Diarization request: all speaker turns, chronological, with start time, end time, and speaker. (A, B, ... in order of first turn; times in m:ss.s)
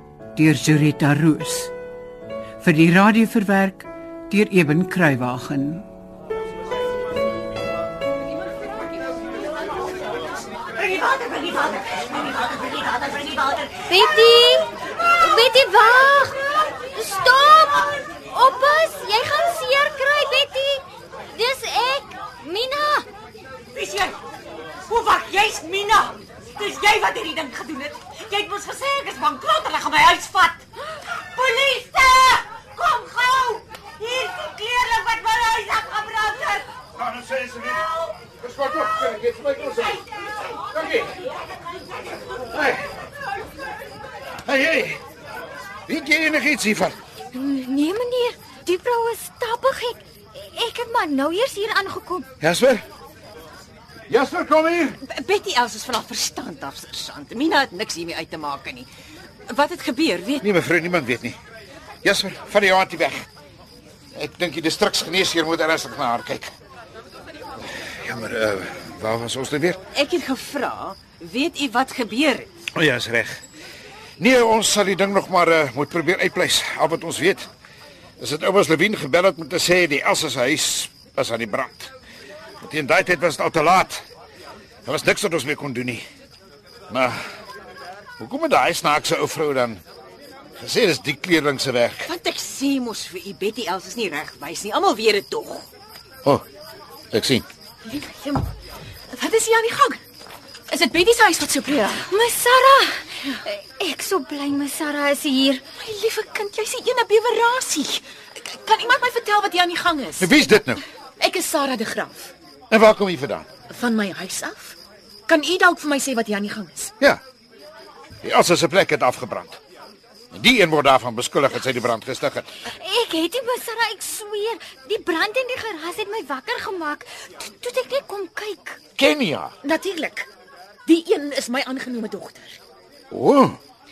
0:00.4-0:01.7 A
0:02.6-0:05.8 A
0:10.6-0:14.0 B
0:13.9-0:23.1 C
0:23.7-0:24.2 B
0:24.9-0:36.7 B
0:37.0-0:40.0 D
0:37.7-0:38.1 B
0:40.6-0:41.2 D
0:42.4-0:42.9 D
0:44.4-0:45.0 D
0:45.9-0:47.0 D
0:47.3-0:52.3 C
0:52.4-0:52.8 D
0:54.1-0:55.0 D
0:55.0-0:58.9 B
0:59.5-1:00.4 B
1:00.4-1:01.4 D
1:02.0-1:03.3 D
1:04.1-1:06.5 D
1:07.6-1:09.8 D
1:09.9-1:12.5 B
1:12.7-1:13.4 D
1:14.2-1:17.5 D
1:18.2-1:21.9 D
1:22.6-1:24.0 D
1:24.8-1:26.0 D
1:26.9-1:27.2 D
1:28.2-1:29.8 D
1:30.6-1:32.1 D
1:32.1-1:35.7 B
1:37.1-1:37.4 D
1:38.0-1:38.4 E
1:39.1-1:40.0 E
1:40.7-1:42.0 E
1:42.0-1:45.6 C
1:45.8-1:50.4 E
1:50.2-1:50.8 D
1:51.2-1:52.3 E
1:52.7-1:53.5 D
1:53.7-1:56.9 E
1:58.2-1:59.6 D
2:00.3-2:02.5 D
2:02.6-2:08.8 C
2:09.0-2:09.5 D
2:09.6-2:10.3 E
2:10.8-2:12.6 E
2:13.1-2:13.6 D